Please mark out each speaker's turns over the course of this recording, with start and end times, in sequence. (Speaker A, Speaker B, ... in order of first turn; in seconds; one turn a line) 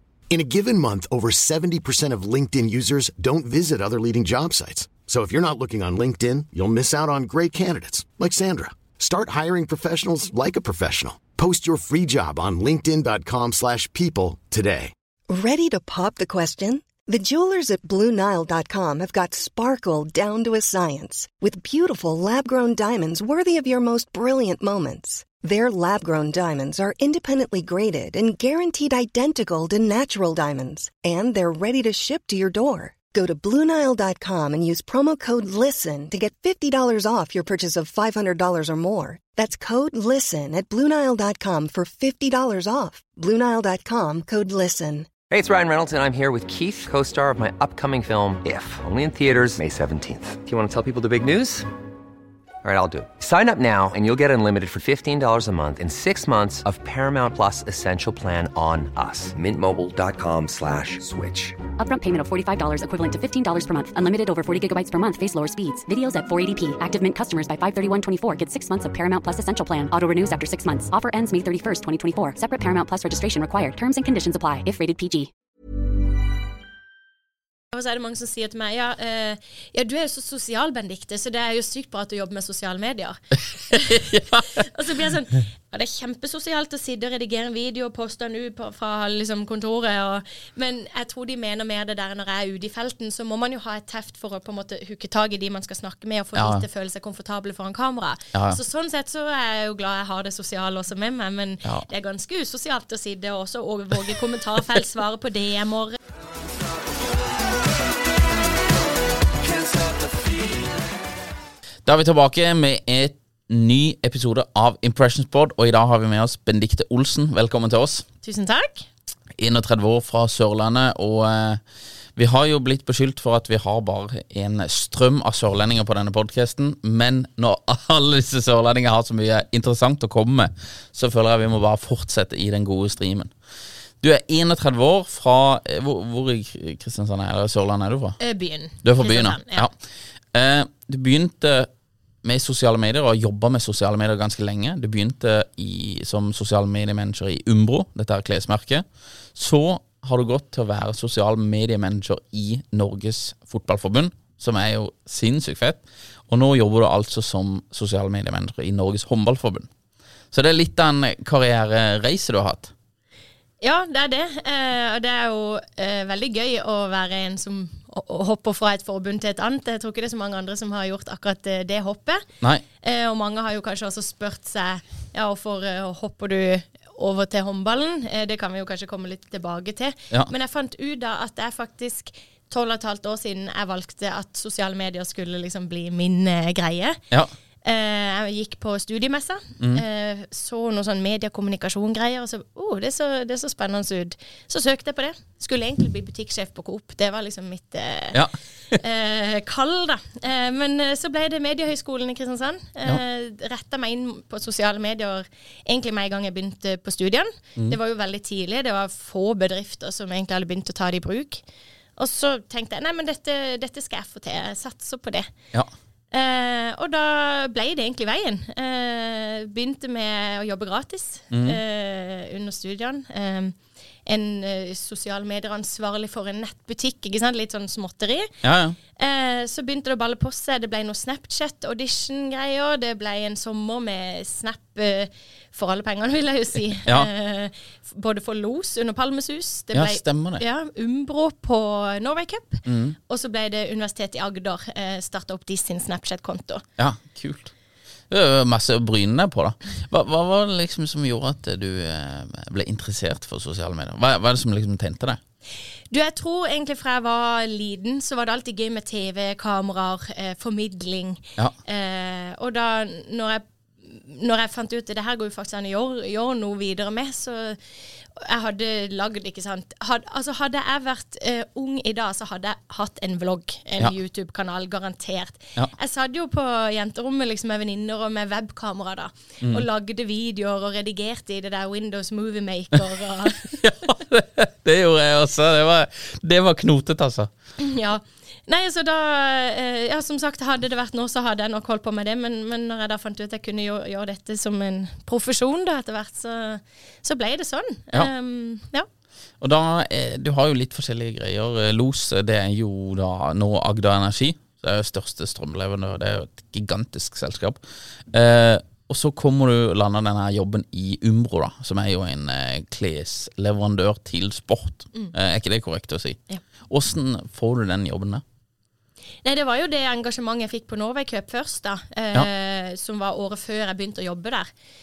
Speaker A: 0.3-14.9
Speaker B: 15.3-45.1
Speaker C: 45.3-51.7
Speaker C: 52.6-61.6
Speaker D: 61.8-75.3
Speaker E: 77.7-83.2
Speaker E: 83.7-106.0
Speaker F: 83.9-84.6
Speaker F: 96.3-96.6
Speaker F: 111.8-118.0
Speaker E: 118.2-118.9
Speaker F: 119.4-121.6
Speaker F: 122.2-133.3
Speaker F: 134.0-138.2
Speaker E: 138.2-139.7
Speaker F: 138.8-139.7
Speaker F: 140.3-141.7
Speaker F: 142.2-159.7
Speaker F: 160.3-162.7
Speaker E: 163.6-172.2
Speaker E: 172.8-187.0
Speaker E: 187.6-198.2
Speaker E: 198.7-211.4
Speaker E: 212.0-215.3
Speaker E: 216.1-228.3
Speaker F: 221.3-221.6
Speaker F: 228.4-228.8
Speaker E: 228.9-246.6
Speaker F: 239.7-240.4
Speaker F: 242.7-243.0
Speaker F: 246.8-247.5
Speaker F: 248.1-255.2
Speaker E: 255.9-267.6
Speaker E: 268.1-283.4
Speaker F: 283.4-287.3
Speaker E: 287.6-298.9
Speaker F: 299.4-307.6
Speaker F: 308.1-318.2
Speaker E: 319.2-324.5